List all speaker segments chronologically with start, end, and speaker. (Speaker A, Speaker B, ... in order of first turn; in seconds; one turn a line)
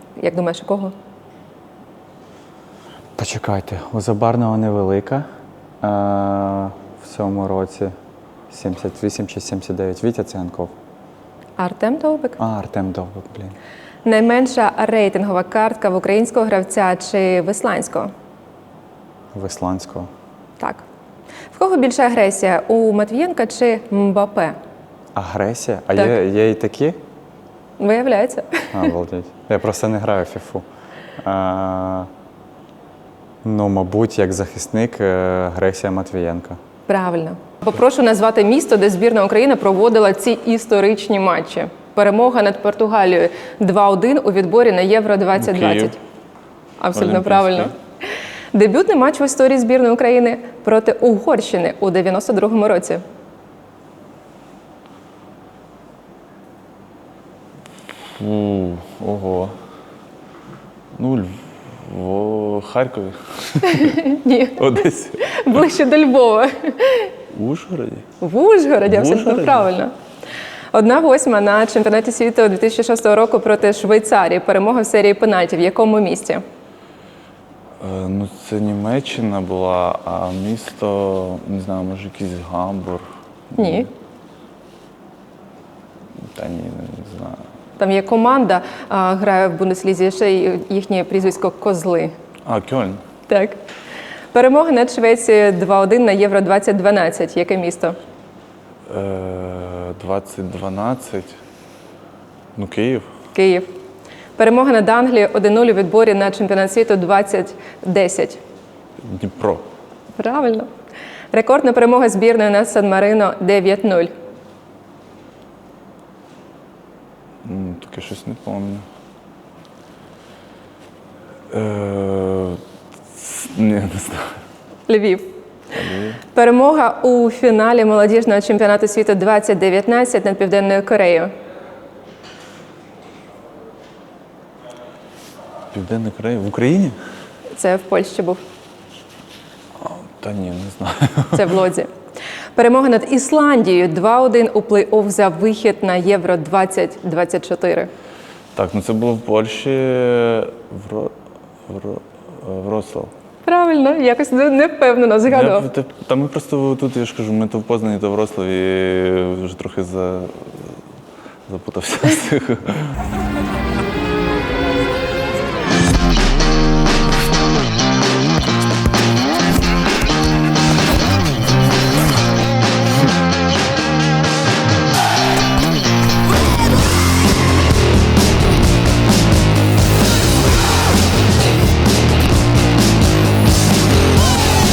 Speaker A: 0.2-0.9
Speaker B: 3.2-5.2
Speaker B: 5.8-7.9
Speaker B: 8.5-10.7
Speaker A: 11.6-12.4
Speaker B: 12.4-13.5
Speaker A: 14.1-18.1
Speaker B: 19.3-20.1
Speaker A: 20.6-20.8
Speaker A: 21.5-24.6
Speaker B: 25.2-27.0
Speaker A: 27.8-28.9
Speaker B: 28.7-30.6
Speaker B: 31.2-32.1
Speaker B: 33.4-36.6
Speaker A: 36.9-46.0
Speaker C: 45.4-46.0
Speaker A: 46.8-47.7
Speaker C: 46.9-47.7
Speaker A: 48.5-53.0
Speaker C: 58.2-59.5
Speaker C: 61.0-61.4
Speaker C: 61.9-63.9
Speaker A: 63.7-67.1
Speaker C: 64.6-65.4
Speaker C: 67.3-68.0
Speaker A: 68.2-69.9
Speaker C: 68.9-69.7
Speaker A: 70.7-76.4
Speaker C: 77.8-83.9
Speaker A: 83.6-83.9
Speaker C: 86.4-87.4
Speaker A: 87.8-92.1
Speaker C: 92.5-93.0
Speaker A: 93.3-93.6
Speaker A: 94.3-98.0
Speaker C: 98.9-101.3
Speaker C: 102.6-103.1
Speaker A: 103.3-103.7
Speaker A: 104.4-108.4
Speaker C: 109.1-109.7
Speaker A: 110.2-110.7
Speaker A: 111.3-114.1
Speaker C: 117.5-118.8
Speaker C: 121.5-122.6
Speaker C: 123.2-124.3
Speaker A: 124.9-125.3
Speaker C: 125.7-126.2
Speaker A: 126.3-131.3
Speaker C: 135.7-137.0
Speaker A: 137.5-138.4
Speaker C: 139.8-141.5
Speaker A: 141.3-141.9
Speaker A: 142.6-147.9
Speaker C: 148.6-151.1
Speaker C: 151.7-153.1
Speaker A: 153.4-155.7
Speaker C: 155.3-160.7
Speaker C: 161.5-162.9